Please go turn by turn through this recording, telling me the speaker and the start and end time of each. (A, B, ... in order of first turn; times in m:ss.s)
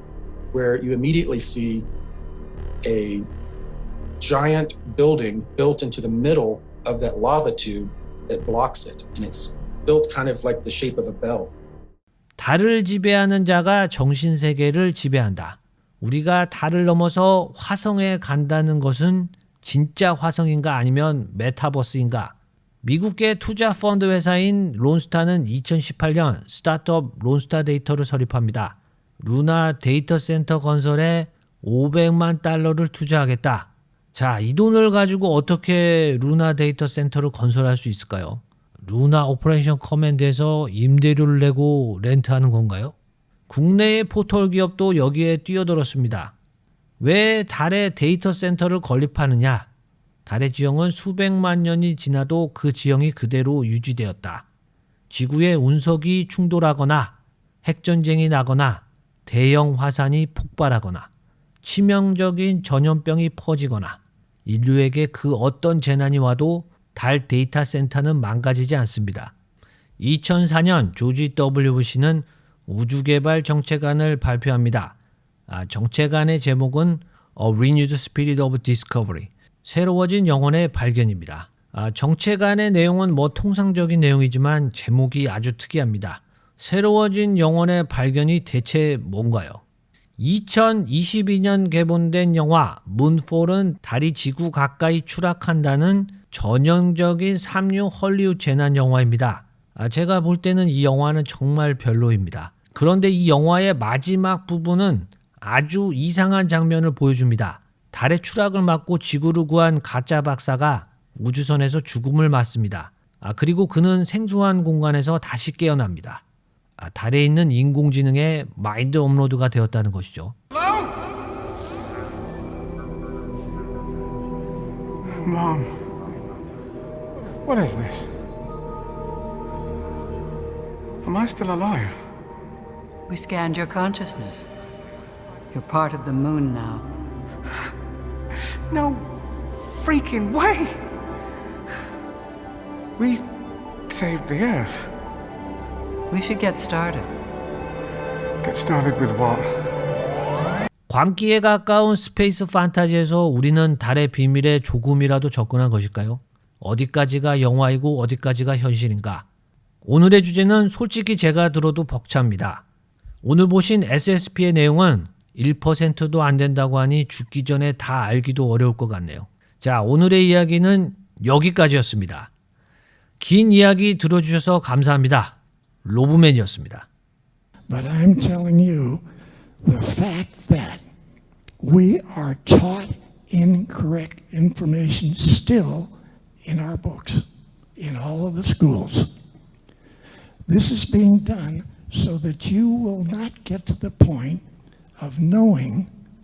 0:00.5-0:01.9 A
0:02.8-0:03.3 A
0:04.2-0:11.5 A
0:12.4-0:43.0 B
0:43.5-0:46.3 B
0:47.0-0:49.7 B
0:50.3-0:54.4 B
0:55.1-1:01.1 B
1:01.6-1:09.3 B
1:10.0-1:15.0 B
1:15.5-1:29.6 B
1:30.2-1:56.2 B
1:56.8-2:00.4 B
2:05.1-2:05.9 C
2:07.4-2:08.2 C
2:11.0-2:12.0 C
2:13.1-2:14.5 D
2:15.5-2:16.9 D
2:18.7-2:19.1 C
2:19.7-2:20.9 C
2:23.0-2:23.3 C
2:23.9-2:24.9 C
2:26.1-2:27.1 D
2:28.4-2:29.7 C
2:30.9-2:39.3 B
2:39.8-2:42.6 B
2:43.2-2:52.3 B
2:53.2-2:56.9 B
2:57.7-2:59.0 E
2:59.6-3:00.8 E
3:01.6-3:07.3 E
3:07.8-3:09.1 E
3:10.5-3:14.4 E
3:15.0-3:15.9 E